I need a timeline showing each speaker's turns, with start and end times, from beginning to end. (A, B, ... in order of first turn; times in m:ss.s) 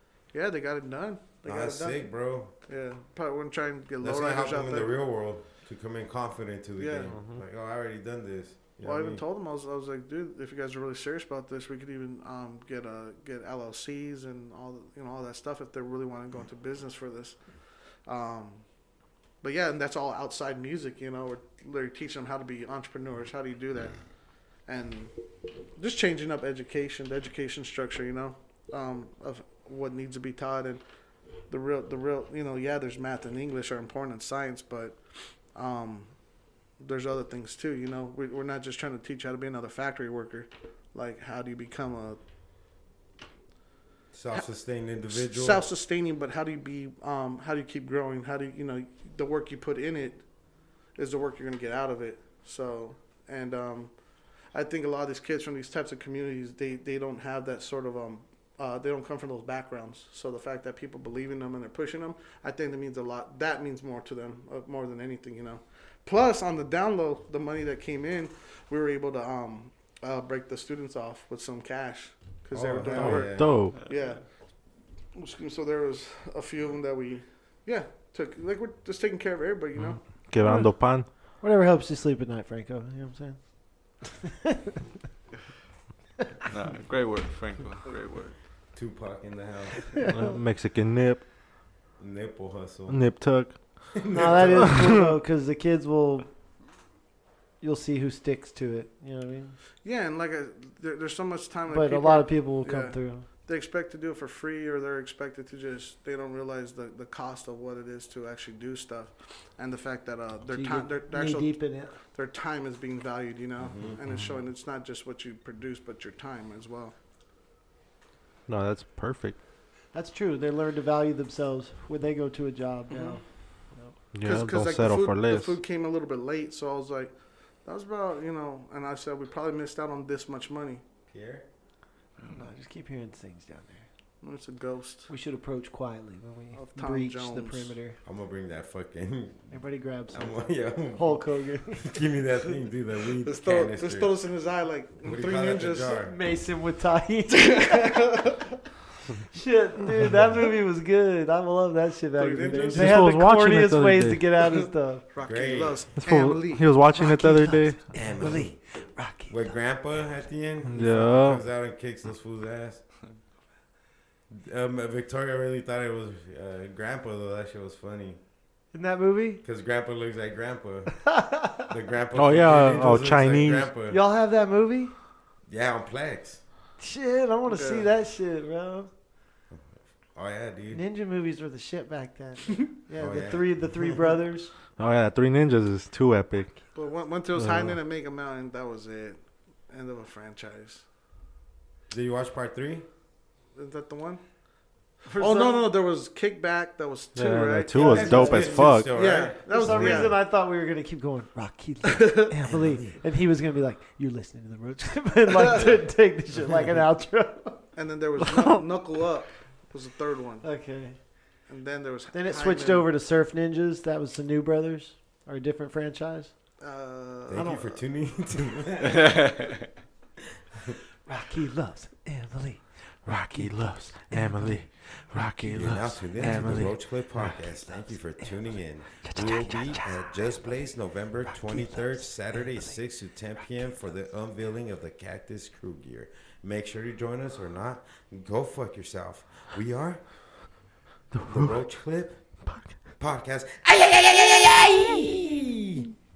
0:00.3-0:02.1 A
0:01.4-0:02.5 B
0:02.7-0:04.9 A
0:04.0-0:09.2 B
0:06.8-0:07.1 A
0:07.1-0:07.4 C
0:08.8-0:17.4 A
0:18.0-0:18.6 A
0:19.4-0:24.0 A
0:24.6-0:25.1 A
0:25.8-0:30.8 A
0:31.5-0:35.0 A
0:35.5-0:36.1 A
0:36.8-0:42.2 A
0:44.1-0:45.6 B
0:45.1-0:50.2 A
0:51.0-0:53.9 A
0:54.5-1:14.2 A
1:12.5-1:13.6 B
1:13.0-1:13.8 C
1:13.7-1:14.2 D
1:15.1-1:20.0 A
1:19.8-1:21.0 C
1:20.4-1:20.9 E
1:21.4-1:23.4 E
1:24.4-1:24.8 E
1:26.4-1:28.3 D
1:28.7-1:29.9 B
1:30.0-1:31.2 C
1:32.0-1:33.2 B
1:32.9-1:33.8 C
1:33.9-1:34.8 B
1:34.1-1:36.3 E
1:34.6-1:35.0 C
1:37.6-1:39.5 E
1:39.8-1:56.9 A
1:41.7-1:43.2 E
1:50.5-1:51.9 E
1:53.6-1:54.0 B
1:54.1-1:54.4 C
1:58.5-1:59.4 C
1:59.9-2:03.2 E
2:02.9-2:03.2 A
2:04.1-2:05.6 C
2:04.2-2:07.1 A
2:07.6-2:10.8 A
2:11.1-2:11.4 B
2:12.3-2:13.8 E
2:14.2-2:15.1 A
2:15.1-2:18.0 E
2:16.5-2:17.7 A
2:18.0-2:19.6 B
2:19.5-2:22.0 E
2:20.1-2:24.1 B
2:23.2-2:26.0 A
2:25.0-2:26.1 B
2:26.0-2:28.3 E
2:27.5-2:28.3 A
2:29.3-2:35.0 E
2:32.2-2:33.0 A
2:32.7-2:34.2 C
2:35.1-2:36.7 A
2:35.2-2:35.8 B
2:36.0-2:37.9 C
2:36.9-2:39.6 E
2:37.9-2:38.5 B
2:39.3-2:42.8 B
2:40.7-2:41.4 C
2:44.3-2:48.2 B
2:48.7-2:49.4 E
2:49.4-2:51.0 B
2:51.0-2:51.6 E
2:51.6-2:54.0 B
2:52.1-2:53.7 C
2:53.9-2:54.9 E
2:55.5-2:56.4 B
2:56.8-2:58.9 E
2:57.5-2:57.9 A
2:59.5-3:00.8 B
3:00.7-3:04.5 E
3:03.0-3:03.8 B
3:04.8-3:06.5 C
3:06.7-3:09.2 A
3:07.4-3:07.8 C
3:09.7-3:10.8 A
3:11.9-3:12.9 B
3:13.5-3:14.2 A
3:15.0-3:15.7 E
3:15.1-3:20.2 A
3:17.1-3:19.0 C
3:17.7-3:18.8 E
3:17.8-3:20.2 B
3:19.4-3:27.6 E
3:21.9-3:22.3 A
3:22.5-3:23.0 B
3:27.7-3:30.5 A
3:30.4-3:31.0 E
3:31.5-3:32.9 A
3:32.1-3:36.3 E
3:36.6-3:37.6 A
3:37.3-3:39.5 B
3:37.3-3:37.7 E
3:41.1-3:42.6 E
3:43.0-3:47.4 C
3:43.3-3:44.6 E
3:45.4-4:00.0 B
3:49.1-3:49.8 C
4:01.1-4:01.6 C
4:01.2-4:02.2 B
4:02.4-4:02.7 C
4:03.0-4:05.8 B